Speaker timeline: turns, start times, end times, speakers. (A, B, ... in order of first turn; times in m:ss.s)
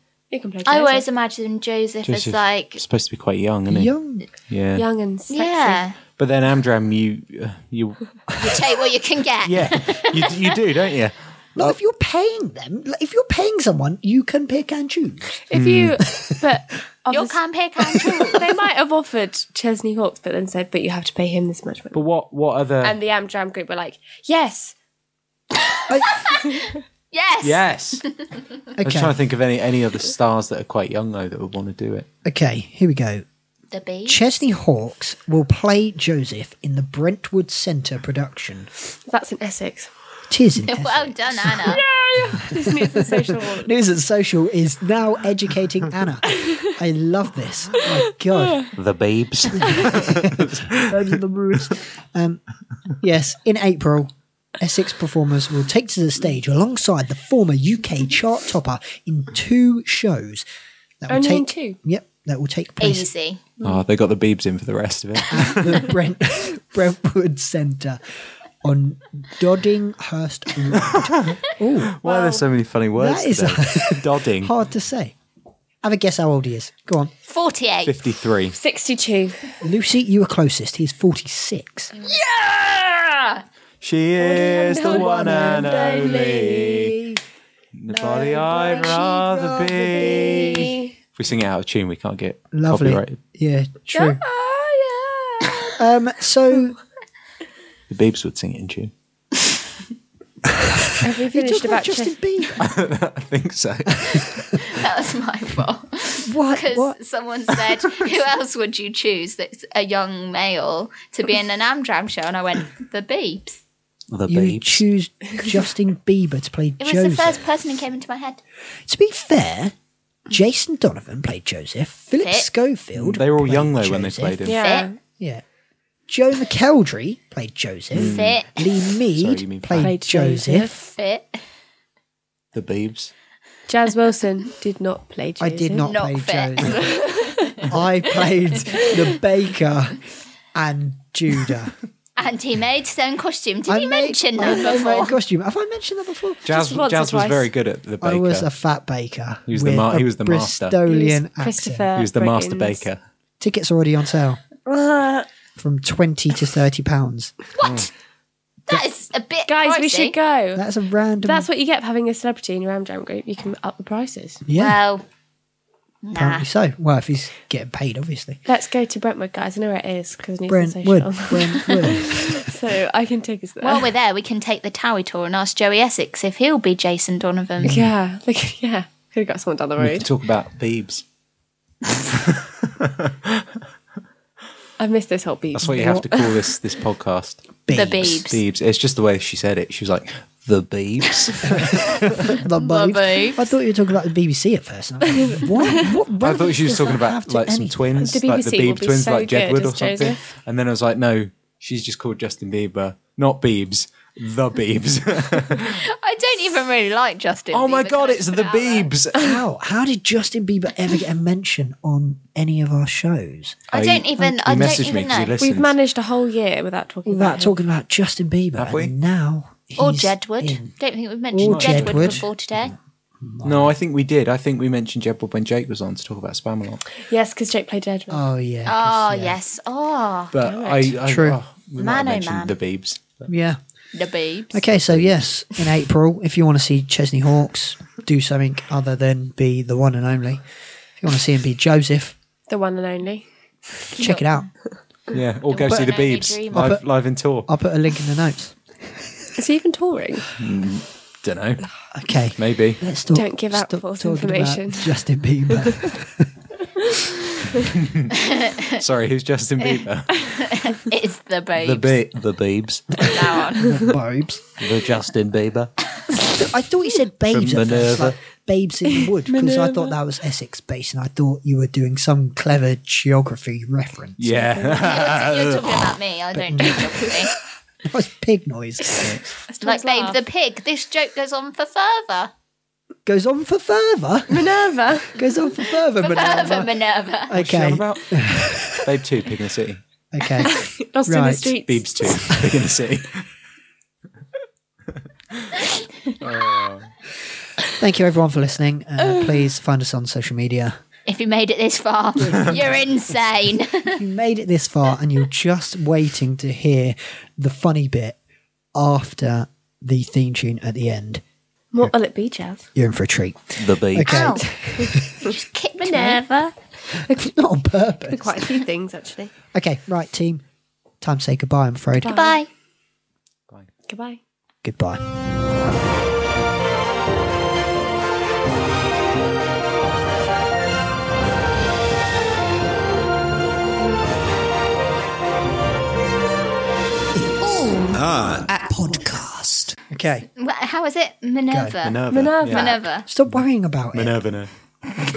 0:00.3-0:01.0 A
0:00.6-0:02.8 B
0:02.0-0:03.9 C
0:03.7-0:04.2 D
0:04.5-0:04.9 C
0:04.8-0:05.8 A
0:05.3-0:06.0 B
0:06.2-0:08.5 C
0:08.4-0:10.4 B
0:09.4-0:11.7 C
0:11.6-0:15.4 D
0:15.5-0:17.4 A
0:15.5-0:16.0 C
0:16.1-0:16.5 D
0:17.1-0:18.5 B
0:18.2-0:22.0 A
0:21.9-0:23.0 C
0:22.8-0:24.7 A
0:25.6-0:28.2 B
0:25.9-0:26.2 D
0:27.4-0:28.0 C
0:28.8-0:29.1 D
0:28.8-0:32.1 C
0:32.2-0:33.2 D
0:33.7-0:34.2 B
0:34.0-0:38.7 D
0:39.0-0:39.9 A
0:40.3-0:48.7 D
0:40.6-0:41.8 B
0:41.6-0:43.7 A
0:48.3-0:48.7 A
0:48.8-0:51.0 C
0:49.5-0:52.4 D
0:49.6-0:49.8 A
0:53.0-1:00.4 D
1:01.0-1:03.1 D
1:01.1-1:01.8 A
1:02.8-1:03.4 B
1:03.6-1:05.9 C
1:05.3-1:08.0 D
1:08.6-1:12.0 D
1:10.8-1:14.5 C
1:12.0-1:12.4 A
1:13.0-1:15.1 D
1:15.8-1:17.1 D
1:17.3-1:18.0 B
1:17.9-1:18.6 C
1:18.5-1:19.6 A
1:19.6-1:21.9 D
1:22.3-1:23.4 B
1:23.8-1:27.0 C
1:24.2-1:26.7 A
1:24.8-1:27.2 D
1:27.7-1:33.2 C
1:27.9-1:30.8 D
1:30.5-1:30.9 A
1:32.5-1:34.2 D
1:34.3-1:35.7 B
1:35.8-1:36.8 D
1:37.9-1:38.9 C
1:41.0-1:42.2 A
1:41.3-1:42.7 D
1:42.6-1:44.5 C
1:44.6-1:53.6 B
1:46.3-1:47.0 D
1:54.1-1:54.8 C
1:54.3-1:57.4 D
1:56.8-1:58.4 B
1:58.8-1:59.7 D
2:00.3-2:04.4 D
2:02.2-2:02.5 B
2:02.9-2:04.6 C
2:04.4-2:05.0 A
2:04.5-2:04.9 B
2:06.1-2:10.8 D
2:07.9-2:08.4 C
2:07.9-2:08.7 B
2:09.2-2:10.0 C
2:09.8-2:10.8 A
2:10.9-2:11.4 B
2:12.5-2:13.1 C
2:13.7-2:15.9 A
2:15.4-2:17.0 D
2:15.8-2:17.5 B
2:16.6-2:17.7 A
2:17.7-2:20.0 D
2:20.5-2:21.7 D
2:22.2-2:25.2 B
2:23.7-2:26.4 D
2:24.4-2:24.7 A
2:26.4-2:27.5 A
2:26.4-2:28.4 C
2:28.0-2:31.9 D
2:29.5-2:30.8 C
2:30.9-2:32.9 A
2:31.9-2:33.0 C
2:33.4-2:34.4 D
2:34.7-2:35.2 A
2:35.6-2:37.3 D
2:37.6-2:37.9 B
2:37.6-2:37.9 C
2:38.7-2:40.2 B
2:39.5-2:40.6 A
2:40.5-2:41.5 D
2:41.2-2:44.4 A
2:44.4-2:44.8 D
2:44.6-2:45.0 B
2:46.0-2:46.5 B
2:46.1-2:48.4 D
2:48.4-2:53.8 A
2:50.5-2:52.5 D
2:53.6-2:57.8 B
2:57.6-2:57.9 D
2:57.6-3:00.1 A
2:59.8-3:01.0 C
3:02.3-3:03.4 C
3:04.8-3:06.3 A
3:05.5-3:12.4 C
3:05.6-3:06.1 D
3:07.7-3:08.2 D
3:07.7-3:08.4 B
3:11.4-3:18.1 D
3:12.3-3:13.5 B
3:16.2-3:25.8 C
3:18.0-3:20.2 A
3:25.6-3:28.9 B
3:27.5-3:29.4 C
3:29.2-3:33.6 D
3:33.7-3:35.4 B
3:33.7-3:35.8 C
3:34.2-3:35.0 D
3:35.4-3:37.5 A
3:37.1-3:40.7 D
3:38.6-3:38.9 C
3:39.8-3:42.8 B
3:41.3-3:42.7 D
3:41.4-3:42.2 C
3:43.2-3:43.8 D
3:43.4-3:46.8 C
3:47.0-3:48.2 A
3:48.1-3:49.4 D
3:48.6-3:50.6 B
3:50.3-3:53.3 C
3:50.5-3:50.8 A
3:51.0-3:51.4 D
3:51.8-3:52.6 B
3:53.3-3:53.6 D
3:53.9-3:54.7 B
3:54.5-4:00.5 D
3:54.9-3:55.2 C
4:01.0-4:02.1 D
4:02.5-4:04.1 A
4:04.0-4:04.5 D
4:05.1-4:07.5 C
4:05.5-4:06.8 B
4:05.7-4:06.0 D
4:06.5-4:09.0 D
4:09.4-4:10.3 A
4:10.4-4:11.7 C
4:11.9-4:16.3 D
4:12.4-4:12.8 C
4:13.1-4:15.7 A
4:17.7-4:18.2 C
4:18.2-4:18.8 B
4:18.8-4:20.4 C
4:20.4-4:22.0 B
4:21.6-4:22.9 C
4:23.0-4:23.7 B
4:23.5-4:24.4 D
4:24.6-4:25.7 C
4:26.1-4:34.5 D
4:27.3-4:28.2 C
4:28.9-4:29.9 A
4:34.2-4:35.9 C
4:34.4-4:34.9 A
4:34.8-4:37.3 B
4:36.4-4:36.9 D
4:37.8-4:39.3 D
4:39.0-4:39.3 C
4:39.0-4:40.2 A
4:39.6-4:42.3 B
4:43.1-4:44.5 D
4:44.3-4:45.6 A
4:45.1-4:46.7 D
4:46.0-4:47.3 B
4:47.2-4:48.9 D
4:47.4-4:49.8 C
4:50.1-4:51.6 D
4:50.4-4:52.4 A
4:51.6-4:53.3 C
4:56.2-4:56.9 C
4:57.8-5:00.8 D
4:59.0-4:59.5 A
5:01.1-5:04.0 B
5:02.2-5:02.9 D
5:03.9-5:08.2 D
5:08.8-5:11.2 D
5:11.7-5:12.7 A
5:12.8-5:15.1 D
5:13.6-5:14.0 C
5:14.0-5:14.4 B
5:14.1-5:17.3 A
5:15.1-5:16.5 B
5:17.1-5:18.5 D
5:18.1-5:19.3 A
5:19.5-5:20.4 D
5:21.0-5:22.1 D
5:22.0-5:22.4 A
5:22.0-5:22.5 B
5:23.9-5:24.2 A
5:24.6-5:25.0 D
5:37.2-5:39.8 E
5:37.4-5:38.0 B
5:39.9-5:40.3 D
5:40.4-5:43.1 B
5:41.5-5:41.8 D
5:41.8-5:42.7 C
5:42.1-5:42.8 A
5:43.1-5:44.2 D
5:43.9-5:44.5 C